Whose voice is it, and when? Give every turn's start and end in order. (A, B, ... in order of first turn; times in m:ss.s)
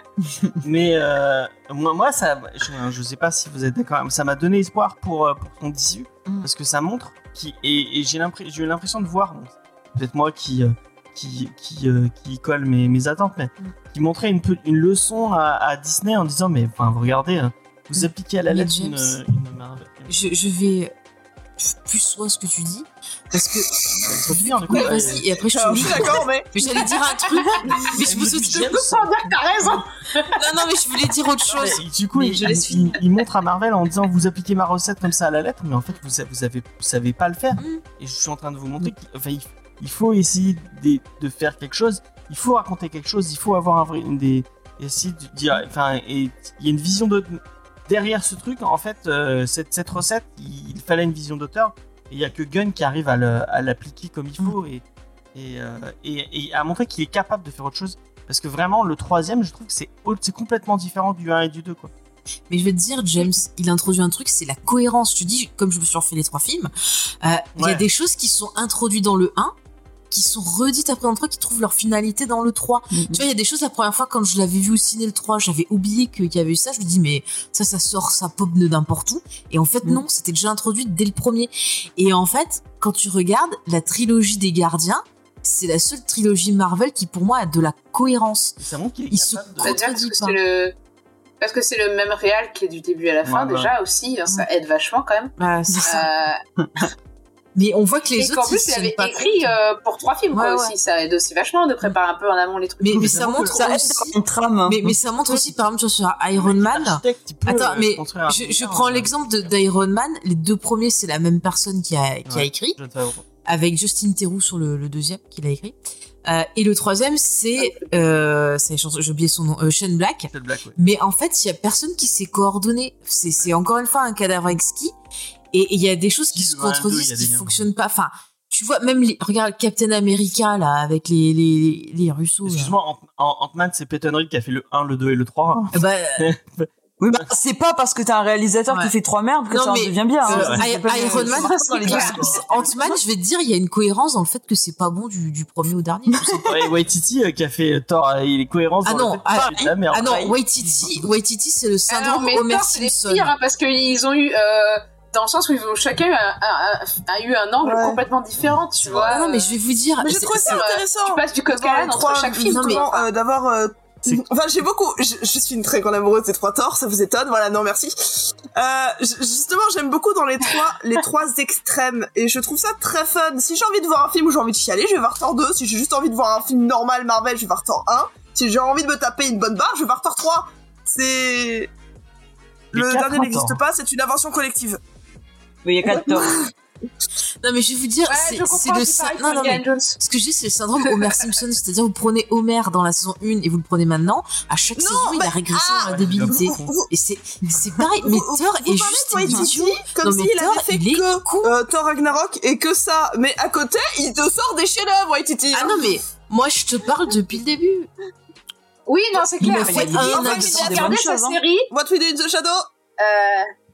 0:00.6-0:20.1 A
0:18.5-0:19.2 B
0:20.1-0:20.9 B
0:21.6-0:29.1 B
0:24.0-0:26.1 A
0:25.5-0:26.9 C
0:27.7-0:30.4 D
0:27.8-0:29.0 A
0:30.3-0:33.0 B
0:31.5-1:01.9 A
0:37.6-0:37.8 B
1:02.5-1:09.5 B
1:07.6-1:07.8 A
1:10.1-1:28.6 B
1:12.9-1:13.2 E
1:28.6-1:29.8 A
1:29.1-1:30.4 B
1:29.6-1:30.8 D
1:31.4-1:36.4 D
1:33.2-1:33.7 A
1:35.4-1:36.1 B
1:37.5-1:39.6 B
1:38.2-1:43.4 D
1:40.3-1:40.7 B
1:42.8-1:52.8 B
1:42.9-1:43.8 A
1:43.5-1:45.0 E
1:46.4-1:49.5 A
1:52.2-1:53.2 A
1:53.4-2:04.9 B
1:57.6-1:58.0 D
2:00.3-2:00.8 A
2:05.5-2:12.7 B
2:06.3-2:07.6 A
2:12.4-2:17.2 A
2:15.7-2:16.3 B
2:17.0-2:22.9 E
2:18.7-2:18.9 B
2:19.5-2:26.5 B
2:20.2-2:20.6 A
2:21.8-2:22.2 D
2:21.8-2:22.7 A
2:26.1-2:26.5 E
2:26.4-2:30.3 A
2:28.8-2:33.3 B
2:29.5-2:30.4 E
2:31.9-2:39.5 D
2:37.6-2:38.0 C
2:38.5-2:39.2 A
2:39.0-2:40.6 B
2:40.0-3:01.7 C
2:40.4-2:43.1 D
2:42.4-2:42.9 B
3:02.7-3:03.6 A
3:02.7-3:04.8 C
3:05.6-3:06.4 E
3:05.8-3:06.5 C
3:07.4-3:21.5 B
3:08.0-3:10.0 D
3:14.8-3:16.9 C
3:15.8-3:16.8 A
3:18.0-3:26.0 C
3:25.5-3:27.9 B
3:28.9-3:31.7 D
3:29.4-3:31.4 E
3:29.4-3:30.9 B
3:29.7-3:30.9 C
3:31.7-3:32.7 C
3:33.0-3:33.5 D